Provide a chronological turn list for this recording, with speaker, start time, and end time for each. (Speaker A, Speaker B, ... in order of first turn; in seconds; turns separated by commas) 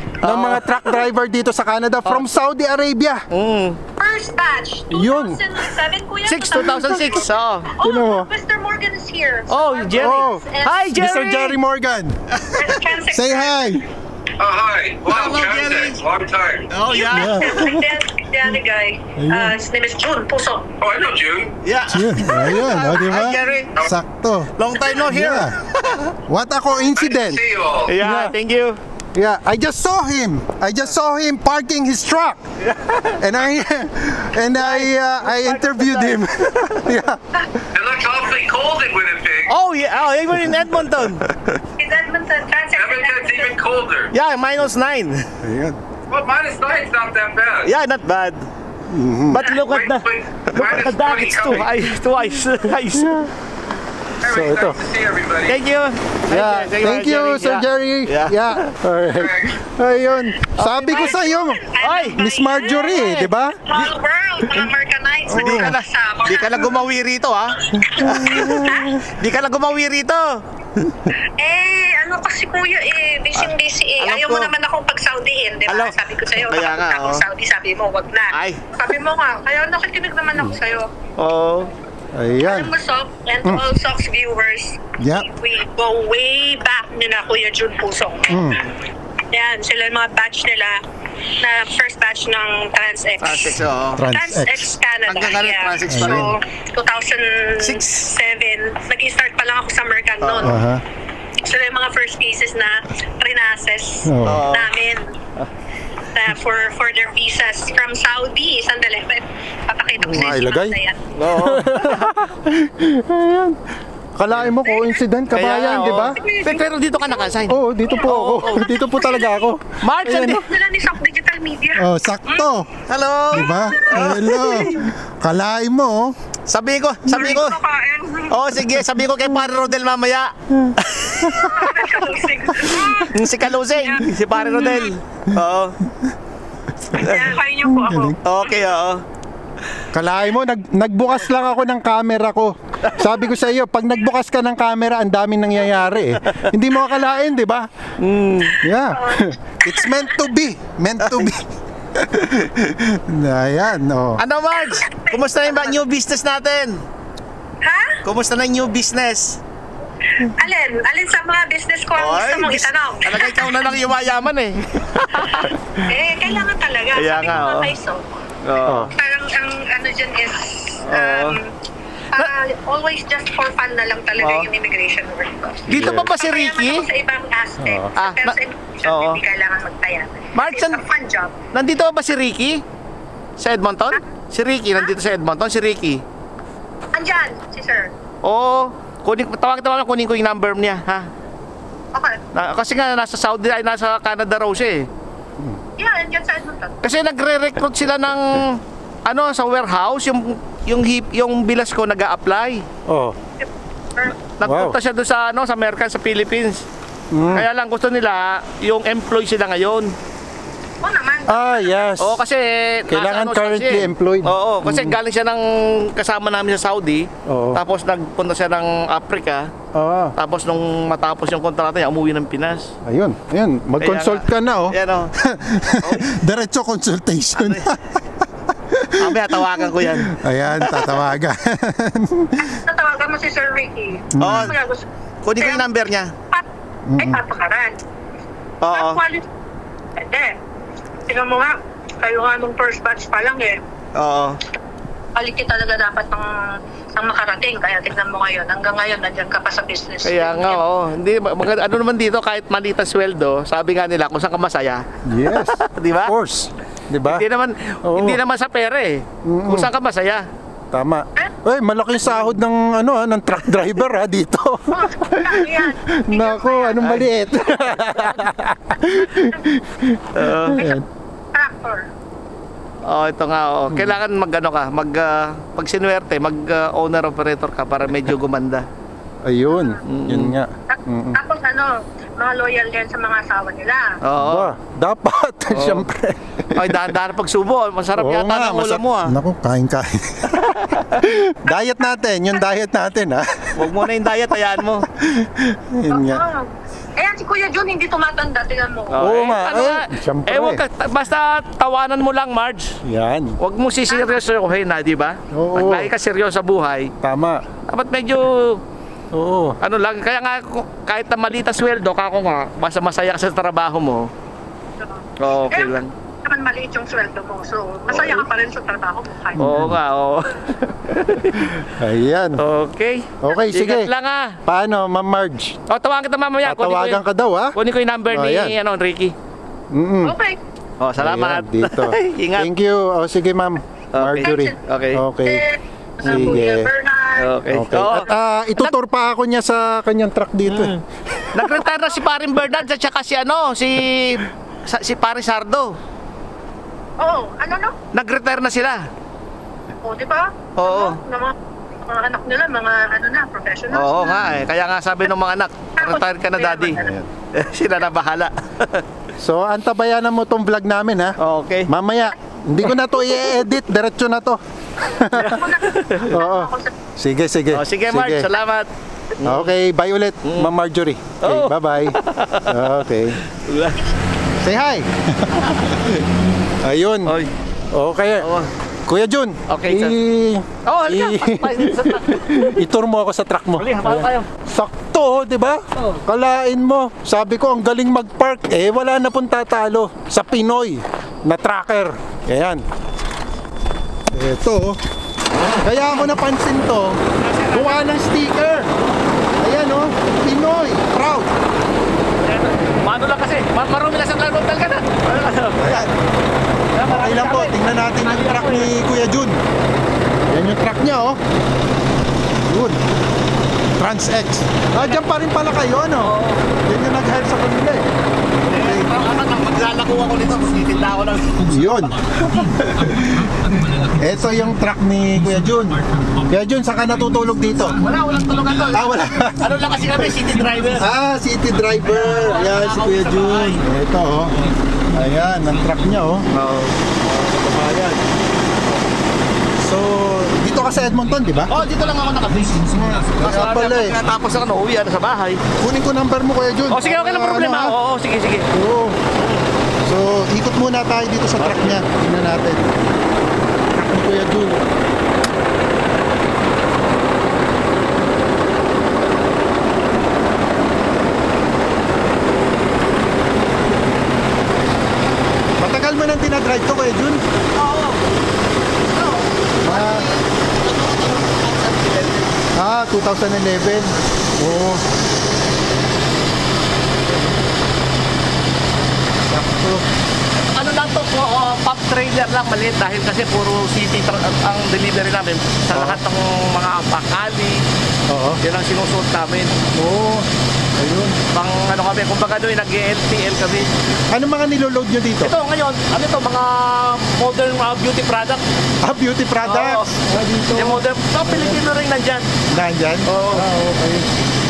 Speaker A: 0.2-3.3, Speaker B: 0.2-1.1, Speaker B: 3.3-3.8, Speaker C: 4.0-7.2, Speaker A: 4.9-5.7, Speaker B: 6.3-7.7, Speaker A: 6.6-7.2, Speaker C: 7.7-10.9, Speaker A: 7.8-8.3, Speaker B: 9.5-11.6, Speaker A: 9.9-12.2, Speaker B: 12.3-12.8, Speaker C: 12.5-13.8, Speaker A: 13.1-13.9, Speaker D: 14.4-16.7, Speaker B: 15.1-16.0, Speaker B: 16.7-17.6, Speaker C: 16.8-20.7, Speaker A: 17.1-17.9, Speaker A: 19.2-19.6, Speaker D: 20.8-21.5, Speaker B: 21.6-23.8, Speaker A: 21.9-25.5, Speaker B: 24.6-26.1, Speaker A: 26.3-27.4, Speaker D: 26.9-27.9, Speaker B: 27.9-28.8, Speaker A: 28.0-28.3, Speaker A: 29.1-32.5, Speaker B: 32.6-33.2, Speaker A: 33.2-37.2, Speaker B: 34.5-36.9, Speaker D: 37.7-39.5, Speaker B: 39.5-41.4, Speaker C: 41.8-43.6, Speaker D: 42.7-44.1, Speaker B: 44.1-45.3, Speaker A: 45.4-45.8, Speaker D: 46.1-47.7, Speaker B: 47.6-48.5, Speaker A: 48.9-49.5, Speaker B: 49.3-53.3, Speaker D: 49.5-52.0, Speaker A: 53.0-53.3, Speaker D: 54.2-55.6, Speaker A: 54.2-54.8, Speaker B: 55.5-58.7, Speaker A: 56.3-61.6, Speaker D: 59.1-59.6, Speaker B: 60.6-61.2, Speaker C: 60.9-63.1, Speaker B: 61.8-62.2, Speaker A: 62.2-63.8, Speaker B: 62.9-63.3, Speaker C: 63.6-66.7, Speaker A: 65.3-65.7, Speaker B: 65.3-67.7, Speaker C: 67.8-68.9, Speaker A: 67.8-69.1, Speaker B: 68.3-70.2, Speaker C: 71.2-80.9, Speaker B: 73.4-74.5, Speaker B: 75.7-77.2, Speaker B: 78.3-78.7, Speaker B: 81.2-81.7, Speaker A: 82.1-82.7, Speaker C: 82.4-88.5, Speaker A: 85.0-85.3, Speaker A: 88.3-88.6, Speaker B: 88.5-88.8, Speaker C: 89.3-100.6, Speaker B: 93.2-94.0, Speaker A: 94.0-94.7, Speaker B: 95.1-96.4, Speaker A: 95.9-96.3, Speaker B: 97.6-98.1, Speaker B: 100.2-100.6, Speaker A: 100.4-100.8, Speaker C: 101.4-105.2, Speaker A: 104.0-104.4, Speaker B: 104.2-104.8, Speaker C: 106.1-111.1, Speaker A: 110.1-110.8, Speaker B: 111.2-112.2, Speaker A: 111.3-113.6, Speaker A: 114.2-116.2, Speaker B: 115.3-118.6, Speaker C: 115.7-119.5, Speaker A: 117.5-120.4, Speaker B: 119.8-120.5, Speaker C: 120.1-122.5, Speaker A: 121.8-122.7, Speaker B: 122.9-124.9, Speaker A: 123.3-126.2, Speaker C: 123.3-124.8, Speaker B: 126.5-127.6, Speaker C: 127.0-128.4, Speaker B: 128.3-131.6, Speaker A: 130.6-131.8, Speaker C: 131.4-133.2, Speaker A: 132.6-133.1, Speaker B: 133.1-135.8, Speaker C: 133.8-134.8, Speaker C: 136.9-138.3, Speaker B: 137.0-137.4, Speaker A: 137.7-138.2, Speaker B: 138.2-139.0, Speaker A: 139.9-147.7, Speaker B: 148.0-148.6, Speaker A: 148.6-154.2, Speaker C: 148.9-150.1, Speaker B: 154.2-156.8, Speaker C: 154.5-155.8, Speaker C: 157.6-158.0, Speaker B: 158.0-159.4, Speaker C: 160.2-163.7, Speaker B: 162.0-165.5, Speaker C: 165.8-168.0, Speaker B: 166.9-167.7, Speaker B: 168.4-168.9, Speaker A: 168.7-168.9, Speaker C: 168.9-171.6, Speaker B: 170.8-171.4, Speaker C: 172.1-181.3, Speaker B: 174.2-174.5, Speaker A: 175.7-176.1, Speaker B: 175.7-176.9, Speaker A: 177.6-177.9, Speaker B: 178.0-179.2, Speaker B: 180.3-180.8, Speaker B: 181.5-182.6, Speaker B: 183.4-186.0, Speaker C: 186.9-187.9, Speaker B: 188.2-191.1, Speaker C: 191.9-192.2, Speaker B: 192.3-194.9, Speaker C: 195.8-196.8, Speaker B: 196.8-202.7, Speaker A: 202.9-203.2, Speaker C: 203.4-204.2, Speaker B: 204.4-206.7, Speaker A: 204.4-204.8, Speaker A: 207.1-207.4, Speaker B: 207.3-209.9, Speaker C: 210.8-211.9, Speaker A: 211.3-212.2, Speaker B: 212.0-219.5, Speaker A: 212.9-215.0, Speaker A: 217.3-217.6, Speaker A: 219.7-220.2, Speaker B: 220.2-222.7, Speaker A: 222.8-227.8, Speaker B: 223.8-225.1, Speaker B: 225.8-226.1, Speaker B: 227.4-227.7, Speaker A: 228.7-232.6, Speaker B: 229.0-231.0, Speaker C: 232.7-235.7, Speaker A: 234.1-234.5, Speaker B: 234.2-234.6, Speaker B: 235.2-236.1, Speaker C: 236.3-237.8, Speaker A: 236.9-237.2, Speaker B: 238.6-239.0, Speaker C: 238.7-239.3, Speaker C: 239.9-240.4, Speaker C: 241.1-243.6, Speaker B: 243.9-244.4, Speaker C: 245.2-250.6, Speaker B: 250.0-256.1, Speaker A: 255.1-257.2, Speaker B: 257.1-260.3, Speaker A: 257.8-258.2, Speaker A: 259.2-259.7, Speaker A: 260.7-270.9, Speaker C: 264.7-266.9, Speaker B: 270.2-270.6, Speaker C: 271.3-271.9, Speaker B: 272.9-278.7, Speaker A: 273.7-274.0, Speaker A: 279.2-281.2, Speaker C: 279.5-279.8, Speaker B: 279.9-280.4, Speaker C: 280.7-284.0, Speaker B: 284.0-284.5, Speaker A: 284.2-286.9, Speaker B: 285.5-285.9, Speaker B: 286.6-289.1, Speaker A: 288.0-293.9, Speaker B: 293.6-294.9, Speaker A: 295.0-296.2, Speaker C: 295.9-299.1, Speaker B: 298.9-302.8, Speaker A: 299.0-300.6, Speaker A: 302.8-303.4, Speaker B: 303.4-306.9, Speaker A: 305.3-305.9, Speaker A: 307.0-307.4, Speaker B: 307.7-308.6, Speaker A: 309.1-309.6, Speaker B: 309.6-314.1, Speaker C: 314.8-319.6, Speaker B: 315.2-315.9, Speaker B: 317.9-318.2, Speaker A: 319.4-319.8, Speaker B: 319.4-321.4, Speaker A: 321.1-322.4, Speaker B: 322.4-324.4, Speaker A: 323.2-323.9, Speaker A: 324.4-325.6, Speaker B: 325.7-327.0, Speaker A: 326.4-327.6, Speaker B: 327.6-329.1, Speaker A: 328.1-328.6, Speaker A: 329.7-330.2, Speaker C: 330.0-330.4, Speaker B: 330.8-332.5, Speaker A: 331.0-335.4, Speaker B: 333.9-335.0, Speaker C: 334.2-334.6, Speaker C: 335.2-337.4, Speaker B: 336.0-336.4, Speaker A: 336.1-336.7, Speaker B: 337.2-338.7, Speaker A: 337.5-341.2, Speaker B: 340.5-340.8, Speaker B: 341.3-345.8, Speaker C: 341.6-342.0, Speaker C: 347.0-347.8, Speaker B: 347.9-348.9, Speaker C: 349.8-354.3, Speaker B: 350.6-351.0, Speaker B: 353.7-356.8, Speaker C: 355.8-356.9, Speaker A: 356.8-357.1, Speaker B: 357.3-358.9, Speaker A: 359.2-361.1, Speaker B: 361.2-361.7, Speaker A: 361.7-365.4, Speaker C: 365.1-366.7, Speaker B: 365.2-366.1, Speaker A: 366.1-368.3, Speaker B: 367.5-369.5, Speaker A: 369.2-373.2, Speaker B: 371.2-372.7, Speaker B: 373.3-373.8, Speaker A: 374.4-375.8, Speaker B: 375.5-376.0, Speaker A: 376.6-377.1, Speaker A: 377.7-378.3, Speaker B: 378.2-378.5, Speaker A: 378.9-392.6, Speaker B: 379.5-379.9, Speaker B: 380.6-382.6, Speaker B: 383.6-384.3, Speaker A: 394.1-394.8, Speaker A: 395.6-397.0, Speaker B: 397.2-397.8, Speaker A: 397.5-398.7, Speaker A: 399.4-401.3, Speaker B: 402.2-405.9, Speaker A: 405.6-405.9, Speaker B: 406.8-408.7, Speaker A: 406.8-409.4, Speaker A: 410.3-411.2, Speaker A: 412.5-412.8, Speaker A: 413.8-417.9, Speaker B: 414.8-415.0, Speaker B: 416.0-416.4, Speaker A: 418.5-418.9, Speaker B: 418.5-421.9, Speaker A: 421.4-427.8, Speaker B: 427.8-430.9, Speaker A: 428.7-429.7, Speaker A: 430.8-434.3, Speaker B: 431.9-433.6, Speaker A: 434.9-436.3, Speaker B: 436.3-436.7, Speaker A: 437.0-438.0, Speaker A: 439.6-441.6, Speaker B: 441.5-445.4, Speaker A: 442.6-444.0, Speaker A: 445.6-447.8, Speaker B: 446.7-448.5, Speaker A: 448.5-449.0, Speaker B: 449.1-449.5, Speaker A: 449.8-452.6, Speaker B: 451.4-451.8, Speaker A: 453.7-454.6, Speaker A: 465.6-467.2, Speaker B: 467.6-468.0, Speaker B: 468.9-472.3, Speaker A: 469.6-470.1, Speaker A: 472.6-474.8, Speaker A: 479.3-479.9, Speaker B: 480.4-487.6, Speaker A: 485.7-486.0, Speaker A: 488.1-488.4, Speaker B: 488.4-489.5, Speaker A: 489.7-490.3, Speaker A: 490.8-491.2, Speaker B: 491.3-493.7, Speaker A: 494.1-495.3, Speaker B: 495.2-498.4, Speaker A: 498.8-501.6, Speaker B: 499.4-500.0, Speaker B: 500.5-502.3, Speaker A: 502.5-504.1, Speaker B: 503.1-503.4